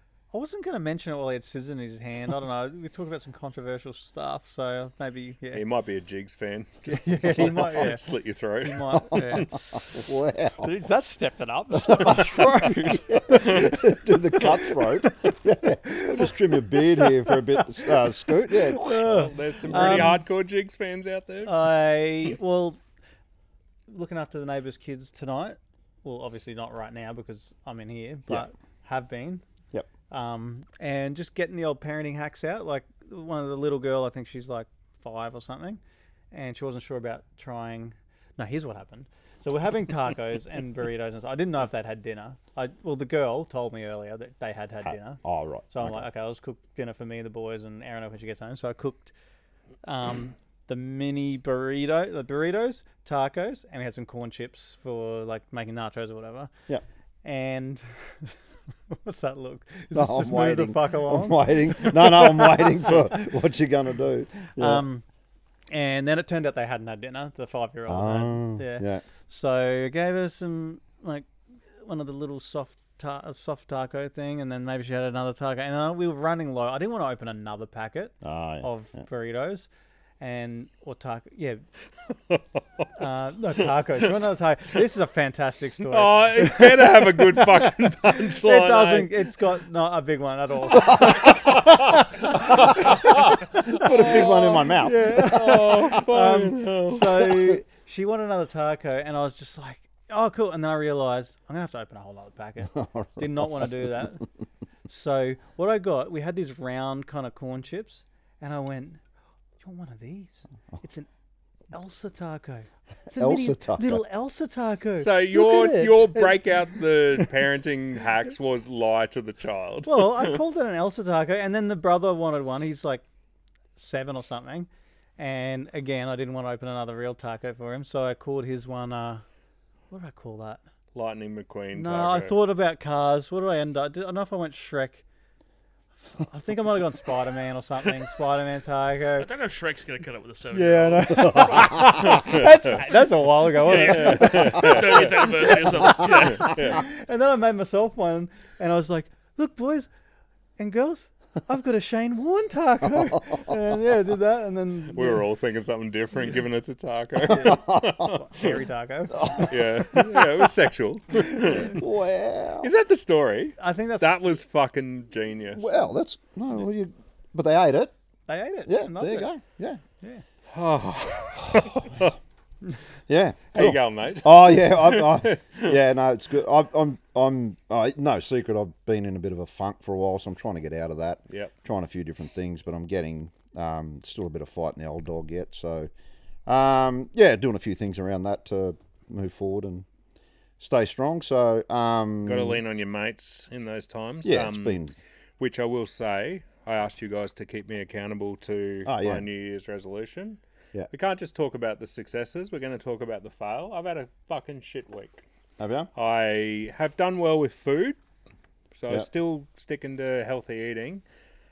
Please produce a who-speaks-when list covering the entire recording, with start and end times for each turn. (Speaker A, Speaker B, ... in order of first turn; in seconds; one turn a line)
Speaker A: 0.3-5.6
Speaker B: 5.5-9.5
Speaker A: 6.9-8.1
Speaker A: 8.6-9.8
Speaker C: 9.7-10.7
Speaker A: 10.6-13.8
Speaker C: 11.8-18.9
Speaker A: 14.4-15.3
Speaker A: 15.9-17.4
Speaker A: 18.5-20.2
Speaker B: 18.8-21.7
Speaker C: 19.7-20.2
Speaker A: 21.4-22.8
Speaker A: 23.9-29.4
Speaker A: 30.1-35.8
Speaker A: 36.3-49.1
Speaker C: 44.8-46.0
Speaker A: 49.8-56.5
Speaker A: 57.2-63.3
Speaker C: 59.9-64.8
Speaker A: 64.6-65.0
Speaker A: 65.7-79.7
Speaker C: 67.9-69.0
Speaker C: 78.2-79.0
Speaker A: 80.2-81.6
Speaker B: 82.3-82.9
Speaker A: 83.0-104.2
Speaker B: 85.9-89.1
Speaker B: 90.8-97.2
Speaker C: 92.5-96.0
Speaker C: 97.2-97.6
Speaker C: 102.7-104.0
Speaker A: 104.9-109.0
Speaker A: 109.6-111.1
Speaker A: 111.7-116.4
Speaker C: 113.2-114.0
Speaker B: 115.0-120.4
Speaker A: 119.8-123.0
Speaker A: 123.8-129.2
Speaker A: 129.9-130.6
Speaker B: 130.9-132.3
Speaker A: 131.7-135.0
Speaker A: 136.2-139.3
Speaker D: 139.2-142.9
Speaker A: 140.5-144.7
Speaker C: 141.2-142.0
Speaker B: 142.0-142.5
Speaker D: 143.6-146.8
Speaker B: 143.7-146.8
Speaker C: 145.8-146.4
Speaker A: 146.0-149.9
Speaker A: 150.6-155.2
Speaker C: 153.0-153.5
Speaker B: 154.9-158.6
Speaker A: 157.2-159.5
Speaker C: 157.3-158.1
Speaker C: 159.1-160.2
Speaker B: 159.4-161.8
Speaker C: 161.2-162.7
Speaker B: 162.6-165.7
Speaker A: 163.6-164.4
Speaker C: 165.6-167.9
Speaker A: 168.3-169.3
Speaker C: 168.7-169.8
Speaker B: 170.5-172.1
Speaker C: 171.5-171.8
Speaker C: 173.1-185.9
Speaker B: 173.5-175.8
Speaker C: 186.4-189.8
Speaker C: 190.6-192.6
Speaker B: 192.2-194.8
Speaker C: 194.2-194.9
Speaker B: 195.4-205.2
Speaker C: 198.8-199.2
Speaker C: 205.6-205.9
Speaker B: 205.9-208.0
Speaker B: 208.7-211.0